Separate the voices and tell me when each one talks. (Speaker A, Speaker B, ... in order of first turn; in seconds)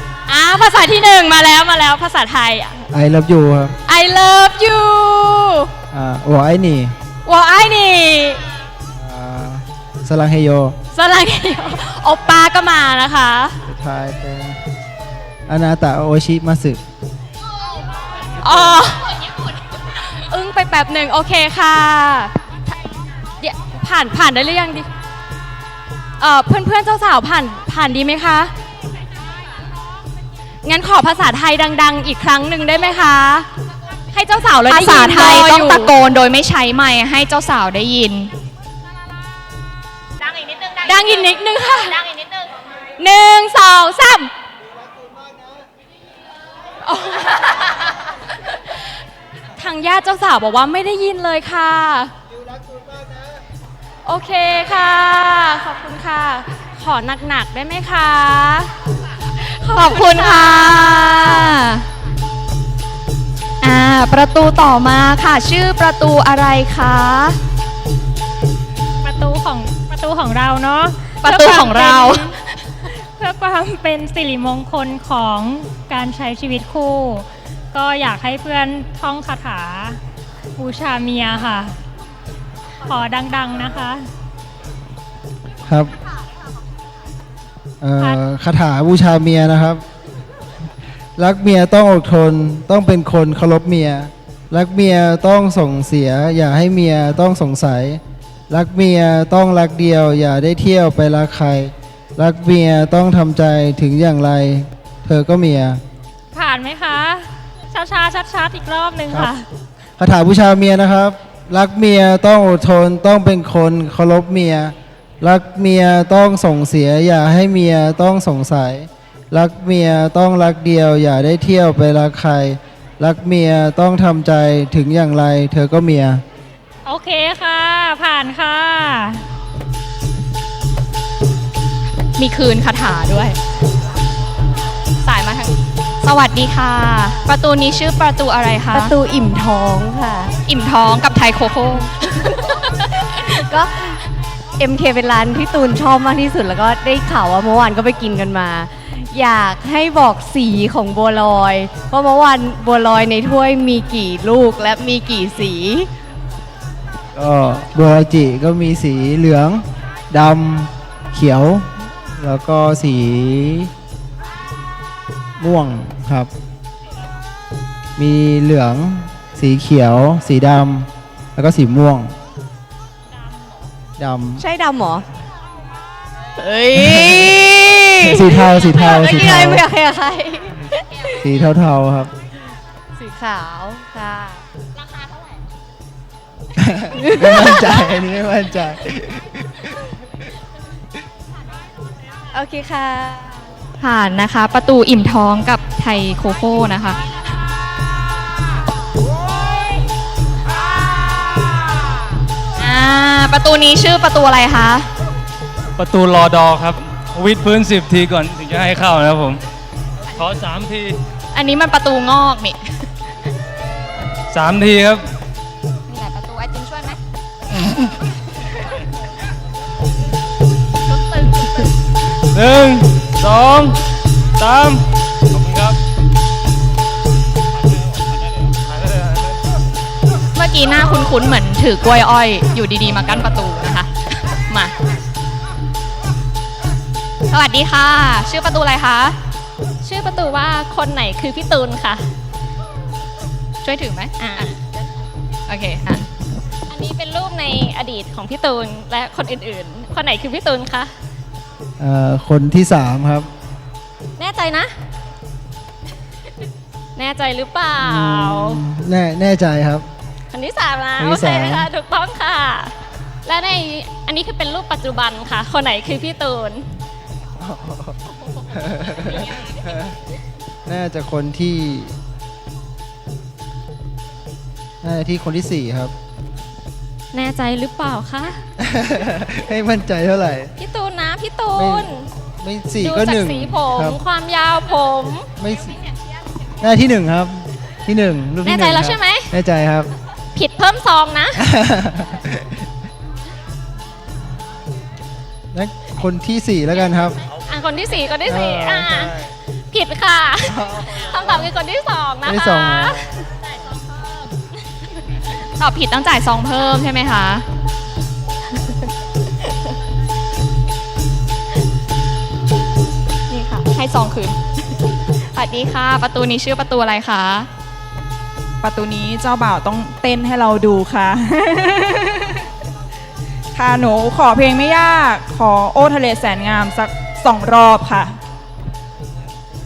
Speaker A: 0.3-2.9, 3.9-5.7, 7.3-8.4, 10.9-13.6, 18.4-19.1, 20.0-22.3, 23.4-24.9, 26.2-28.5, 30.6-33.5, 34.1-35.8, 40.9-42.2, 43.0-44.3, 46.9-47.6, 49.6-52.1, 54.0-58.7, 59.6-61.3, 239.8-242.1, 244.2-244.5, 246.7-250.9, 254.2-254.7, 257.0-258.6, 260.3-262.7, 263.2-266.7, 277.1-278.4, 280.6-282.1, 282.8-285.3, 288.4-289.3, 290.4-291.4, 297.5-299.1, 299.7-303.0
Speaker B: 2.9-3.8, 5.9-6.9, 8.9-10.8, 13.7-14.6, 15.5-16.8, 85.7-85.9, 87.8-89.8, 91.2-105.8, 110.0-126.2, 157.2-163.7, 165.4-166.3, 168.0-172.2, 174.0-174.4, 176.8-177.4, 178.0-179.7, 181.2-182.1, 186.6-189.7, 251.8-253.3, 257.8-259.9, 261.0-261.7, 267.4-270.0, 270.7-272.0, 274.8-275.9, 278.6-280.5, 281.5-284.0, 285.4-285.8, 286.6-289.9, 291.4-292.6, 295.5-297.2, 298.3-299.3, 300.4-301.5, 302.2-303.2
Speaker C: 34.7-38.3, 59.4-61.8, 63.6-67.4, 71.2-72.4, 132.2-133.4, 135.1-139.0, 140.5-143.6, 193.8-197.0, 202.6-204.9, 211.3-212.6, 215.9-217.0, 230.3-234.7, 237.3-239.2, 243.6-244.5, 245.5-246.1, 305.6-307.4, 313.3-314.4, 315.3-317.5
Speaker D: 69.0-72.3, 72.9-80.0, 80.6-81.8, 82.8-84.1, 106.3-109.5, 126.8-129.2
Speaker E: 138.7-140.3, 143.3-144.0, 144.6-155.9, 174.4-175.1, 176.4-181.2, 183.0-184.4, 187.0-187.8, 192.4-193.2
Speaker F: 205.8-209.4, 210.1-211.0, 214.3-215.1, 222.3-223.8, 224.4-225.8, 228.7-229.2, 232.9-233.2
Speaker G: 318.6-322.4, 323.5-328.2